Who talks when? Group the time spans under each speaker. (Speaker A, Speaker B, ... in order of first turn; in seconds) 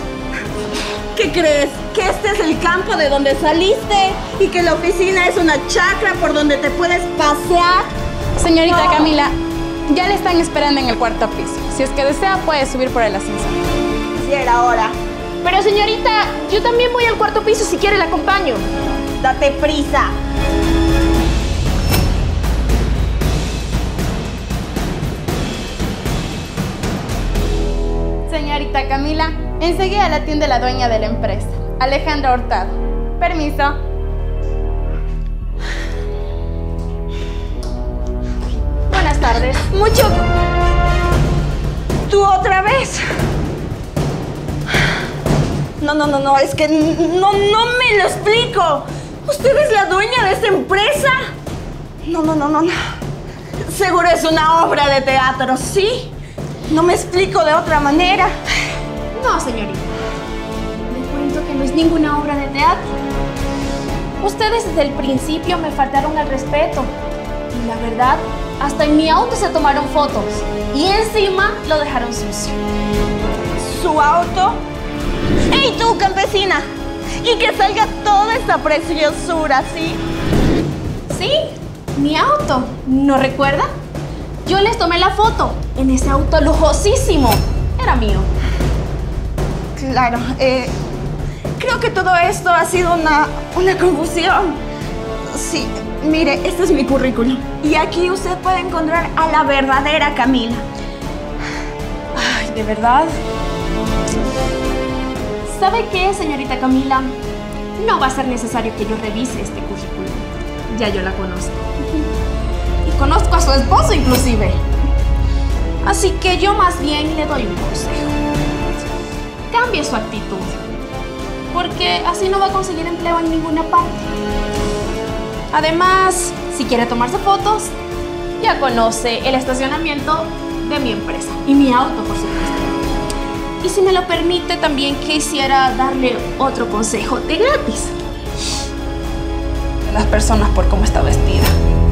Speaker A: 1.1-7.9, 8.7-9.1, 14.2-15.0, 19.2-20.1, 39.7-40.3, 42.1-43.0, 45.8-51.2, 52.0-52.8, 53.7-56.1, 56.7-58.3, 73.6-74.6, 75.5-76.7, 77.2-80.0, 89.8-90.8, 91.6-94.6, 95.3-100.7
Speaker B: 8.4-9.3, 9.9-13.6, 28.3-33.8
Speaker C: 15.4-18.6, 38.9-39.7, 59.1-59.9, 60.9-62.9, 64.2-66.9, 67.5-72.6, 81.1-81.4, 81.9-83.7, 84.5-88.3, 102.1-103.1, 105.5-107.2, 107.8-112.1, 112.8-114.6, 115.8-118.1, 119.5-120.6, 121.5-124.1, 125.5-127.7, 128.4-132.7, 133.6-137.9, 139.8-141.5